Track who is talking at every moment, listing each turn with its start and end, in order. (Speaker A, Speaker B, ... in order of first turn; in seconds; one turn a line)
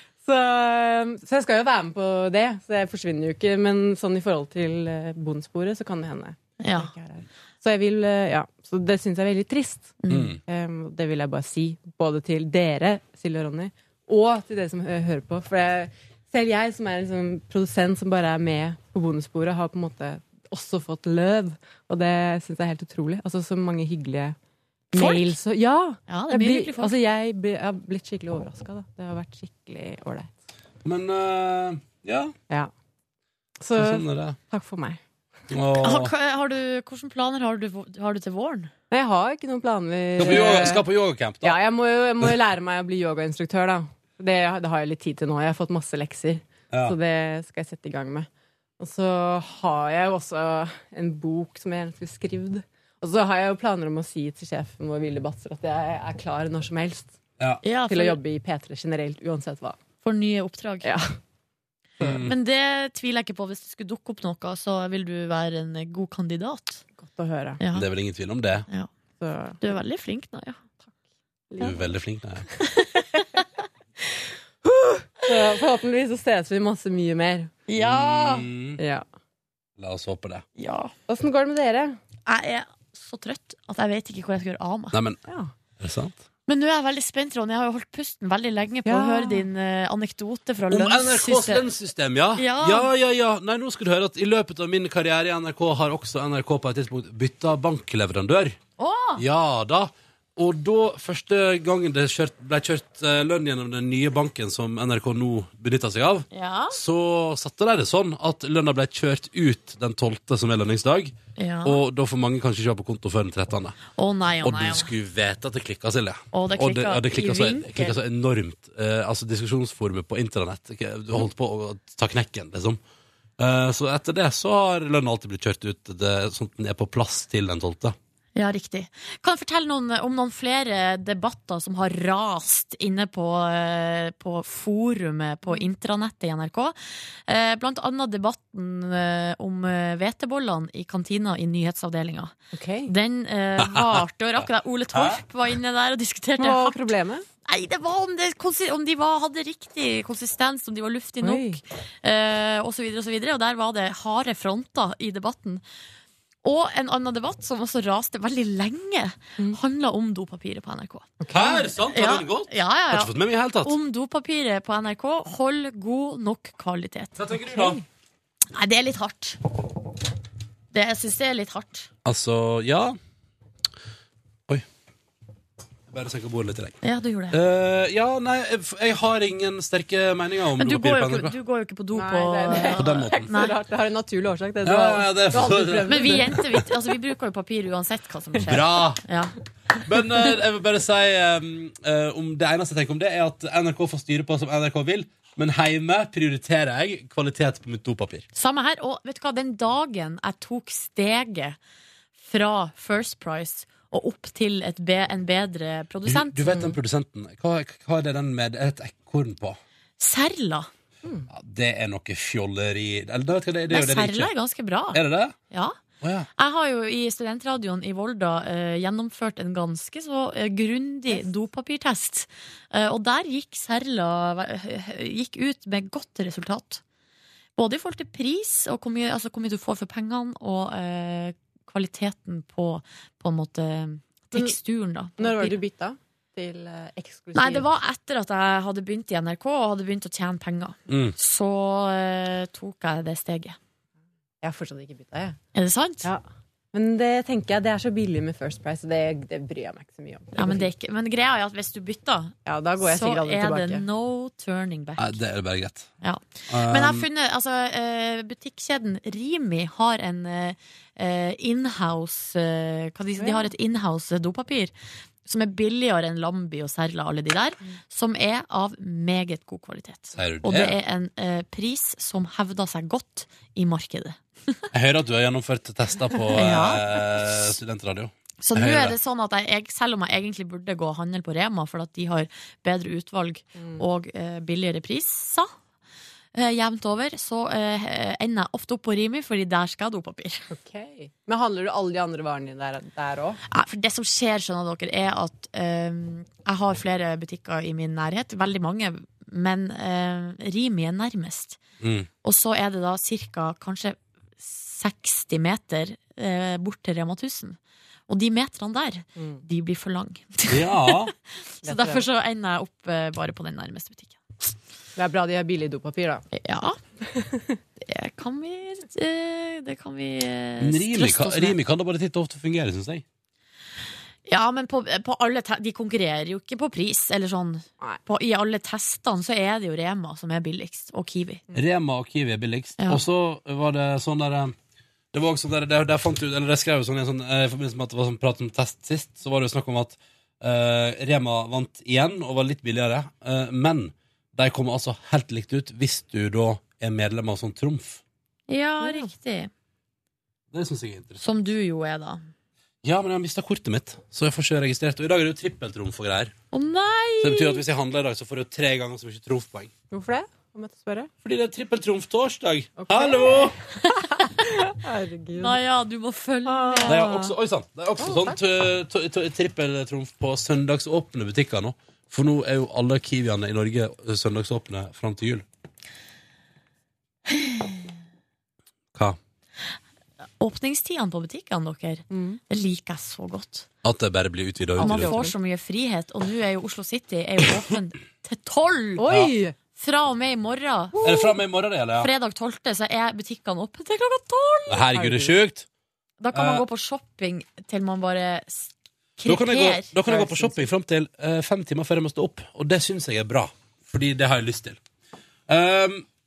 Speaker A: 0.2-24.4
Speaker B: 6.6-6.9
Speaker B: 10.0-10.3
Speaker C: 10.1-10.4
Speaker A: 24.9-30.3
Speaker B: 24.9-25.4
Speaker B: 26.1-27.0
Speaker C: 30.8-32.3
Speaker A: 33.6-35.0
Speaker C: 33.8-34.4
Speaker C: 35.5-36.1
Speaker B: 35.8-38.7
Speaker A: 38.9-40.9
Speaker C: 40.2-41.6
Speaker A: 41.4-48.3
Speaker A: 48.8-57.1
Speaker B: 57.6-58.2
Speaker A: 57.9-59.8
Speaker B: 60.0-61.0
Speaker A: 60.8-61.1
Speaker A: 62.0-62.3
Speaker C: 62.0-62.3
Speaker B: 62.2-66.8
Speaker A: 67.0-67.6
Speaker B: 67.6-67.9
Speaker C: 67.7-68.7
Speaker A: 69.2-69.6
Speaker B: 69.6-70.6
Speaker A: 71.5-71.8
Speaker C: 71.6-72.5
Speaker B: 72.6-73.2
Speaker A: 74.6-77.6
Speaker B: 77.7-78.5
Speaker C: 77.8-78.8
Speaker A: 78.8-79.0
Speaker C: 79.8-80.4
Speaker B: 80.6-80.9
Speaker A: 81.1-82.0
Speaker B: 82.2-85.0
Speaker C: 84.9-85.2
Speaker A: 85.3-85.5
Speaker C: 85.8-86.2
Speaker B: 86.5-91.6
Speaker A: 88.8-89.5
Speaker C: 90.7-98.6
Speaker B: 92.3-92.9
Speaker B: 98.8-99.2
Speaker C: 99.2-113.8
Speaker B: 106.3-106.8
Speaker B: 111.4-111.8
Speaker B: 114.0-114.9
Speaker C: 114.4-122.8
Speaker B: 116.3-118.0
Speaker C: 123.4-128.0
Speaker B: 128.3-136.7
Speaker B: 137.3-142.3
Speaker A: 142.5-142.9
Speaker B: 142.8-146.9
Speaker C: 143.7-144.0
Speaker C: 144.9-145.2
Speaker A: 146.4-147.2
Speaker B: 147.4-155.6
Speaker A: 151.2-151.6
Speaker B: 156.4-161.1
Speaker A: 161.2-161.7
Speaker C: 161.3-163.7
Speaker B: 161.9-167.2
Speaker C: 167.2-167.8
Speaker A: 167.5-167.8
Speaker B: 168.5-169.4
Speaker B: 170.7-171.9
Speaker C: 172.0-173.0
Speaker C: 175.9-176.8
Speaker B: 176.8-177.4
Speaker C: 177.3-181.3
Speaker B: 180.6-183.6
Speaker A: 181.9-186.4
Speaker C: 182.6-183.3
Speaker C: 184.6-186.4
Speaker B: 185.9-189.3
Speaker C: 188.4-189.0
Speaker C: 189.8-198.2
Speaker B: 198.3-201.6
Speaker B: 202.2-206.6
Speaker C: 206.1-209.6
Speaker A: 206.5-206.8
Speaker B: 210.0-210.7
Speaker C: 211.3-214.3
Speaker B: 213.7-215.8
Speaker C: 214.9-215.3
Speaker C: 216.0-216.3
Speaker B: 216.3-226.8
Speaker B: 227.6-235.6
Speaker A: 235.2-237.7
Speaker B: 237.3-243.6
Speaker C: 240.9-241.1
Speaker A: 244.4-245.4
Speaker B: 245.5-246.1
Speaker A: 246.7-250.7
Speaker B: 250.3-255.2
Speaker A: 252.4-253.8
Speaker C: 255.0-255.9
Speaker B: 256.0-264.7
Speaker C: 256.5-257.1
Speaker A: 263.2-263.5
Speaker B: 265.2-274.6
Speaker C: 270.1-270.8
Speaker C: 274.7-278.9
Speaker B: 276.3-276.8
Speaker B: 278.4-285.5
Speaker A: 283.6-283.8
Speaker B: 286.3-290.5
Speaker A: 290.5-293.4
Speaker B: 293.5-301.6
Speaker C: 301.8-302.1
Speaker B: 302.2-307.6
Speaker B: 308.1-310.9
Speaker A: 309.2-309.4
Speaker C: 310.5-311.1
Speaker B: 311.5-314.2
Speaker A: 311.6-312.0
Speaker A: 315.0-316.2
Speaker B: 316.3-316.8
Speaker A: 317.1-317.6
Speaker B: 317.8-321.6
Speaker C: 320.6-323.0
Speaker B: 324.3-331.4
Speaker C: 331.5-334.5
Speaker C: 335.1-348.0
Speaker B: 348.5-349.5
Speaker A: 348.8-349.1
Speaker C: 350.5-351.2
Speaker B: 351.2-352.2
Speaker C: 352.8-356.3
Speaker B: 356.5-357.6
Speaker C: 357.2-359.7
Speaker A: 359.9-361.1
Speaker C: 361.2-363.5
Speaker A: 362.8-365.6
Speaker B: 363.8-364.5
Speaker B: 365.4-367.1
Speaker A: 366.4-367.3
Speaker C: 366.9-375.4
Speaker A: 368.0-368.4
Speaker B: 380.4-383.7
Speaker A: 382.1-382.4
Speaker C: 383.8-385.2
Speaker A: 384.8-385.3
Speaker B: 384.8-389.1
Speaker A: 389.0-389.5
Speaker C: 389.1-389.3
Speaker B: 389.8-391.0
Speaker A: 391.0-391.4
Speaker C: 391.0-392.1
Speaker B: 392.0-394.9
Speaker C: 394.7-395.6
Speaker A: 394.9-395.3
Speaker B: 396.2-399.9
Speaker C: 396.3-396.6
Speaker C: 399.2-404.8
Speaker A: 400.0-400.7
Speaker C: 405.5-406.1